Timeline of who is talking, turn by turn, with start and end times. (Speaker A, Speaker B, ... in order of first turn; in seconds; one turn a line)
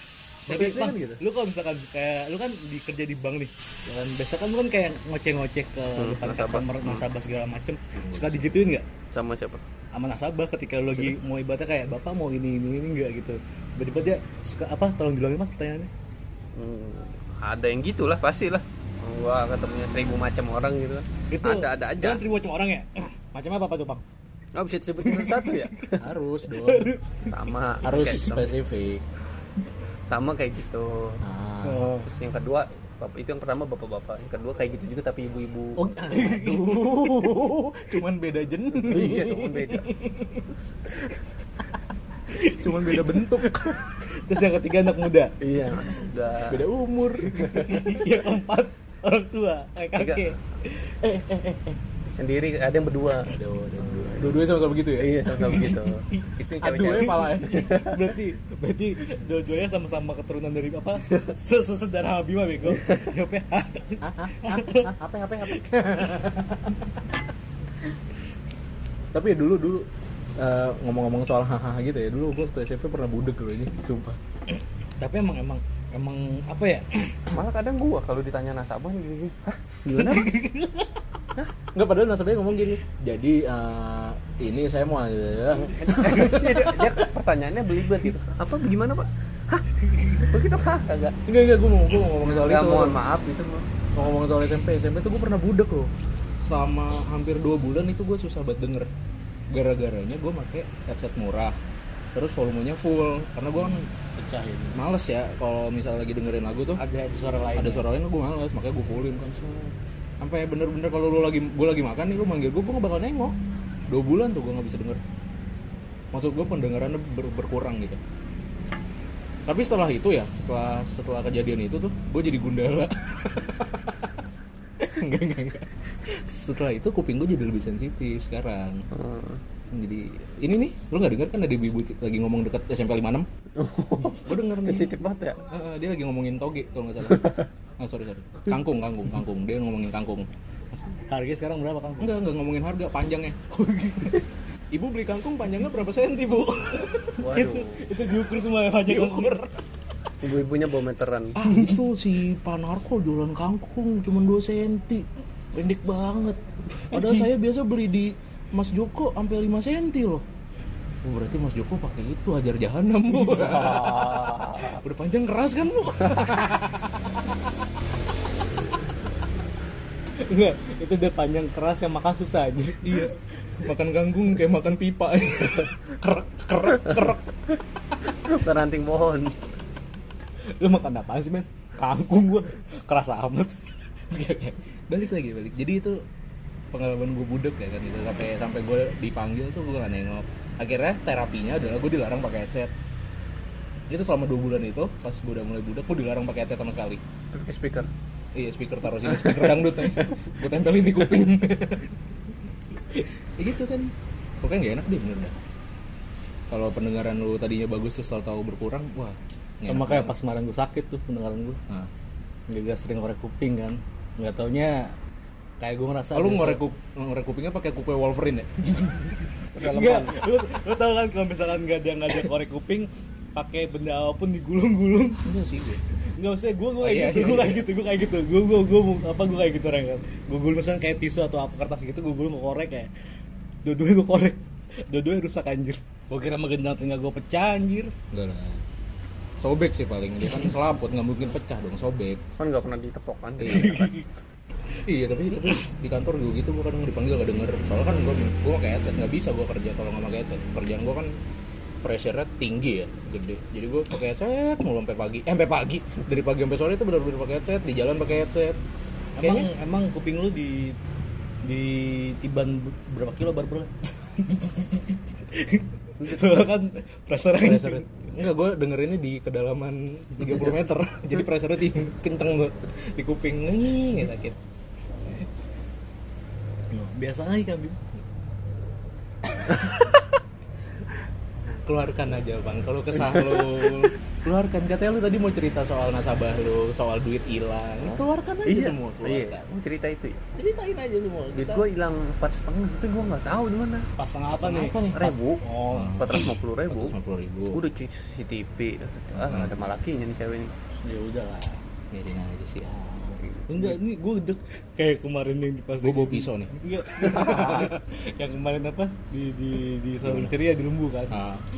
Speaker A: 0.5-1.2
Speaker B: 0.5-8.8
Speaker C: 6.0-7.0
Speaker A: 7.9-8.7
Speaker C: 9.1-9.7
Speaker B: 9.9-15.9
Speaker C: 16.6-22.2
Speaker B: 21.3-24.0
Speaker C: 24.5-26.1
Speaker B: 25.0-25.5
Speaker A: 26.0-26.9
Speaker B: 26.4-27.4
Speaker C: 27.3-28.5
Speaker A: 27.8-29.0
Speaker C: 30.1-31.2
Speaker A: 31.2-31.9
Speaker B: 31.6-32.1
Speaker C: 32.0-36.0
Speaker A: 35.8-41.1
Speaker B: 36.1-37.4
Speaker C: 38.7-39.9
Speaker B: 42.3-45.3
Speaker A: 42.6-43.8
Speaker C: 45.4-46.6
Speaker A: 46.5-47.8
Speaker C: 47.3-47.8
Speaker B: 47.5-51.0
Speaker C: 50.0-50.3
Speaker A: 51.0-51.8
Speaker C: 52.0-53.3
Speaker B: 53.3-54.2
Speaker A: 53.5-55.8
Speaker C: 54.0-54.3
Speaker C: 55.0-58.1
Speaker B: 56.1-64.9
Speaker A: 56.4-57.9
Speaker A: 64.0-66.7
Speaker B: 65.5-66.8
Speaker A: 69.1-69.8
Speaker A: 70.4-74.2
Speaker B: 75.0-77.3
Speaker C: 77.3-80.3
Speaker B: 79.9-81.0
Speaker A: 81.7-87.0
Speaker C: 85.5-91.2
Speaker B: 89.8-90.2
Speaker A: 91.2-93.0
Speaker C: 92.2-93.7
Speaker A: 93.9-95.9
Speaker A: 96.4-98.9
Speaker A: 99.5-101.5
Speaker A: 102.1-103.9
Speaker B: 104.2-104.8
Speaker A: 104.7-106.8
Speaker B: 106.8-107.9
Speaker A: 107.5-113.4
Speaker A: 113.9-115.0
Speaker A: 116.1-118.0
Speaker A: 119.5-124.1
Speaker A: 124.8-128.8
Speaker C: 128.9-129.4
Speaker A: 129.7-133.3
Speaker C: 133.5-135.4
Speaker A: 134.1-140.3
Speaker C: 137.1-137.4
Speaker B: 140.9-142.2
Speaker A: 142.0-143.6
Speaker B: 143.5-144.2
Speaker A: 144.7-147.2
Speaker B: 147.0-149.5
Speaker C: 147.2-147.8
Speaker A: 148.8-149.6
Speaker C: 150.2-151.4
Speaker A: 151.4-156.4
Speaker B: 151.4-151.8
Speaker A: 156.9-160.2
Speaker A: 161.0-167.3
Speaker C: 163.4-164.8
Speaker B: 170.1-173.2
Speaker A: 172.9-177.6
Speaker C: 178.1-179.5
Speaker B: 180.6-183.7
Speaker A: 184.1-186.0
Speaker A: 186.7-192.7
Speaker A: 193.9-197.0
Speaker C: 197.3-197.9
Speaker A: 198.3-201.8
Speaker C: 199.1-200.1
Speaker A: 203.4-205.4
Speaker A: 206.5-210.1
Speaker B: 209.6-211.6
Speaker B: 212.5-214.9
Speaker B: 215.6-216.6
Speaker A: 216.1-219.3
Speaker C: 219.5-220.2
Speaker B: 219.6-225.2
Speaker A: 225.2-225.8
Speaker B: 226.2-232.9
Speaker A: 226.8-227.7
Speaker B: 233.6-237.9
Speaker A: 238.1-238.6
Speaker A: 239.4-242.2
Speaker C: 242.4-244.1
Speaker A: 243.4-243.7
Speaker B: 243.4-244.0
Speaker A: 244.8-251.1
Speaker A: 251.8-258.6
Speaker B: 259.2-260.8
Speaker A: 259.2-259.5
Speaker B: 261.4-267.9
Speaker C: 266.0-266.5
Speaker A: 267.4-274.4
Speaker B: 276.7-277.8
Speaker A: 279.4-280.0
Speaker A: 281.5-289.4
Speaker C: 287.8-290.3
Speaker A: 290.4-291.6
Speaker C: 291.3-293.9
Speaker B: 294.0-296.1
Speaker A: 294.4-295.1
Speaker C: 294.4-296.9
Speaker A: 295.7-297.6
Speaker C: 297.5-300.5
Speaker A: 299.1-299.6
Speaker B: 300.8-301.6
Speaker A: 301.9-303.2
Speaker B: 303.0-311.2
Speaker A: 305.8-307.8
Speaker A: 310.0-310.3
Speaker A: 311.1-311.4